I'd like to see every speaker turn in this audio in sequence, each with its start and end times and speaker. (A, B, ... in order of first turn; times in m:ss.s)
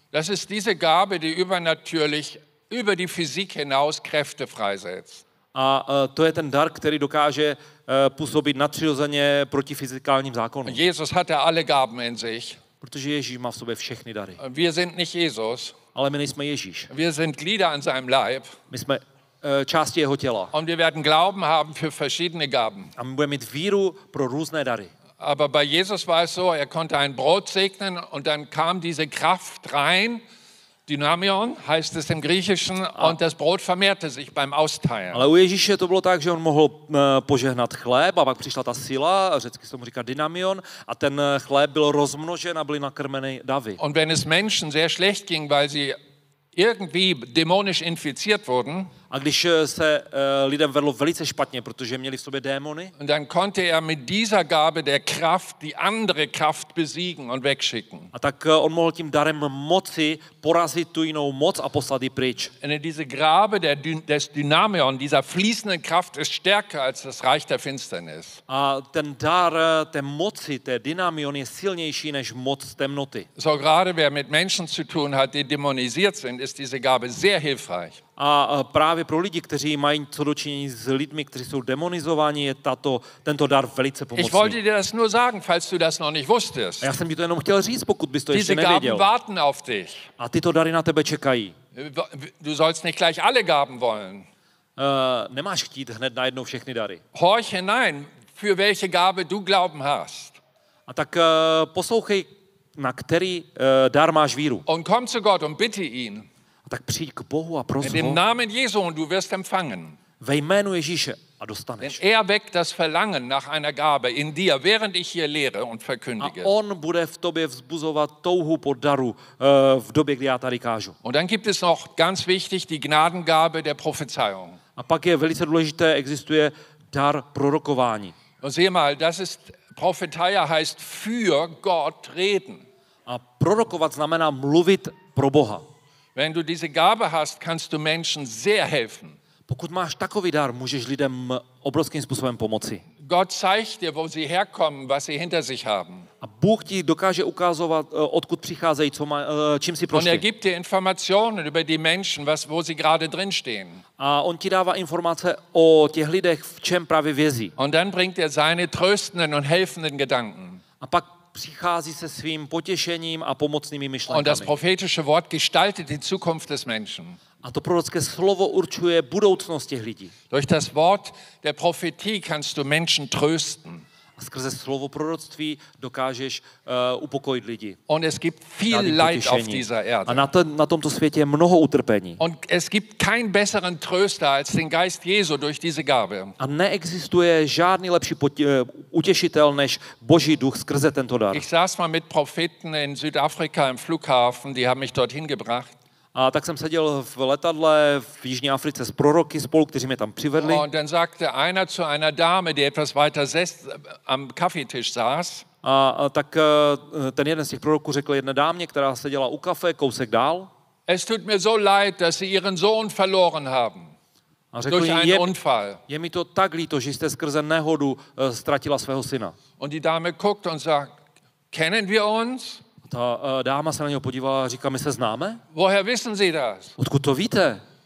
0:00.1-0:05.2 A
0:05.5-0:10.8 B
0:10.7-0:12.6 A
0:12.8-0:14.4 B
0:14.4-0:15.8 A
0:15.9-0:16.9 B
0:16.9-0:18.6 A
0:18.7-0:20.5 B
0:20.5-0:22.9 A
0:23.0-0:24.9 B
0:25.2-0:30.2 A
0:30.9-0:35.3 A
0:35.1-0:43.8 B
0:43.8-0:46.0 A
0:46.6-0:48.9 A
0:49.1-0:52.9 B
0:53.0-0:58.1 A
0:58.1-1:02.5 B
1:02.6-1:08.4 A
1:08.5-1:13.3 B
1:13.4-1:18.0 A
1:18.2-1:24.6 B
1:24.2-1:26.9 A
1:26.8-1:29.1 B
1:28.3-1:30.1 A
1:30.2-1:31.6 B
1:31.8-1:34.3 A
1:34.8-1:37.0 B
1:37.1-1:40.4 A
1:40.9-1:44.6 B
1:44.7-1:46.3 A
1:46.7-1:48.2 B
1:47.8-1:50.0 A
1:50.2-1:52.0 B
1:51.8-1:56.5 A
1:56.2-2:01.0 B
2:01.0-2:04.6 A
2:04.8-2:08.2 B
2:08.4-2:12.7 A
2:13.1-2:15.6 B
2:16.2-2:19.2 A
2:19.5-2:22.8 B
2:23.0-2:26.1 A
2:26.2-2:30.2 B
2:29.9-2:33.8 A
2:34.0-2:37.5 B
2:37.6-2:40.6 A
2:40.8-2:44.5 B
2:44.1-2:47.2 A
2:47.4-2:50.1 B
2:50.3-2:53.8 A
2:54.2-2:57.8 B
2:57.9-3:00.3 A
2:58.7-3:02.2 B
3:02.2-3:06.4 A
3:06.4-3:11.5 B
3:11.3-3:15.7 A
3:16.1-3:20.7 B
3:20.4-3:25.5 A
3:25.6-3:30.5 B
3:30.9-3:33.9 A
3:34.5-3:35.3 B
3:34.7-3:35.8 A
3:35.9-3:39.4 B
3:39.6-3:41.0 A
3:41.5-3:42.6 A
3:42.8-3:45.4 B
3:45.5-3:46.7 A
3:46.8-3:47.6 B